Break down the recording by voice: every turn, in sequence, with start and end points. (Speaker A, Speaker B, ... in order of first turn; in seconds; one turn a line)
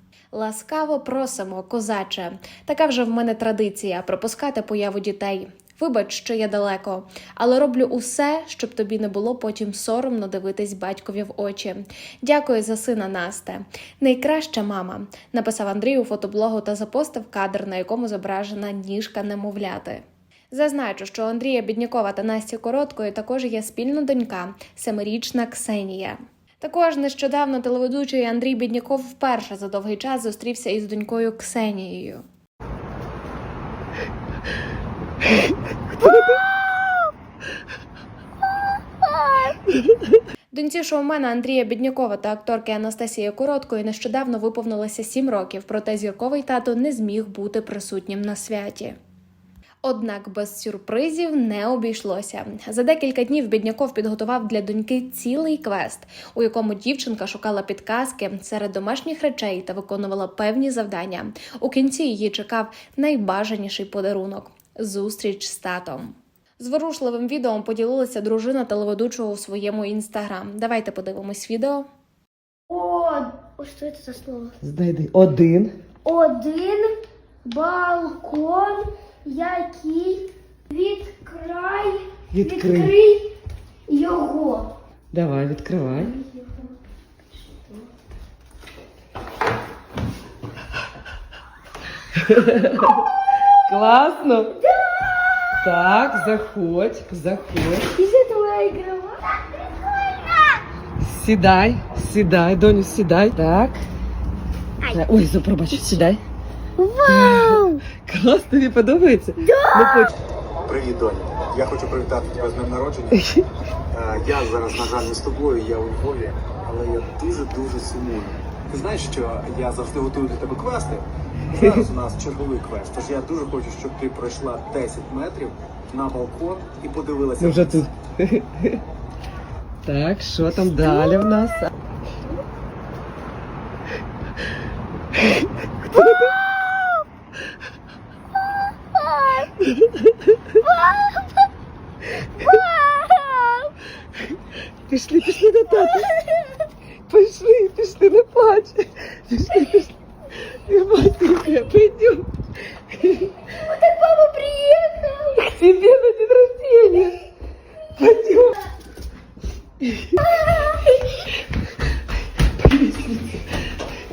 Speaker A: 0.3-32.2
Speaker A: 40.5-49.0
Speaker A: 49.8-71.9
Speaker B: 72.7-74.5
Speaker C: 74.6-75.7
Speaker B: 76.0-83.3
Speaker C: 82.3-82.9
Speaker B: 83.9-84.7
Speaker C: 85.1-86.1
Speaker B: 86.0-86.7
Speaker B: 87.3-87.9
Speaker C: 92.2-93.0
Speaker C: 93.7-94.6
Speaker B: 94.6-95.5
Speaker C: 95.6-97.9
Speaker B: 97.9-100.6
Speaker C: 101.0-103.8
Speaker C: 104.9-106.2
Speaker B: 106.8-107.8
Speaker C: 107.0-110.1
Speaker B: 109.5-110.1
Speaker D: 110.6-113.3
Speaker C: 113.1-113.4
Speaker D: 113.9-127.8
Speaker C: 127.4-128.8
Speaker C: 129.8-131.7
Speaker B: 139.1-139.3
Speaker C: 139.6-140.1
Speaker B: 142.5-143.7
Speaker C: 144.9-146.2
Speaker C: 147.1-152.3
Speaker C: 152.9-153.3
Speaker B: 153.5-155.5
Speaker C: 155.4-157.2
Speaker C: 158.0-158.6
Speaker C: 159.8-160.2
Speaker C: 162.6-163.5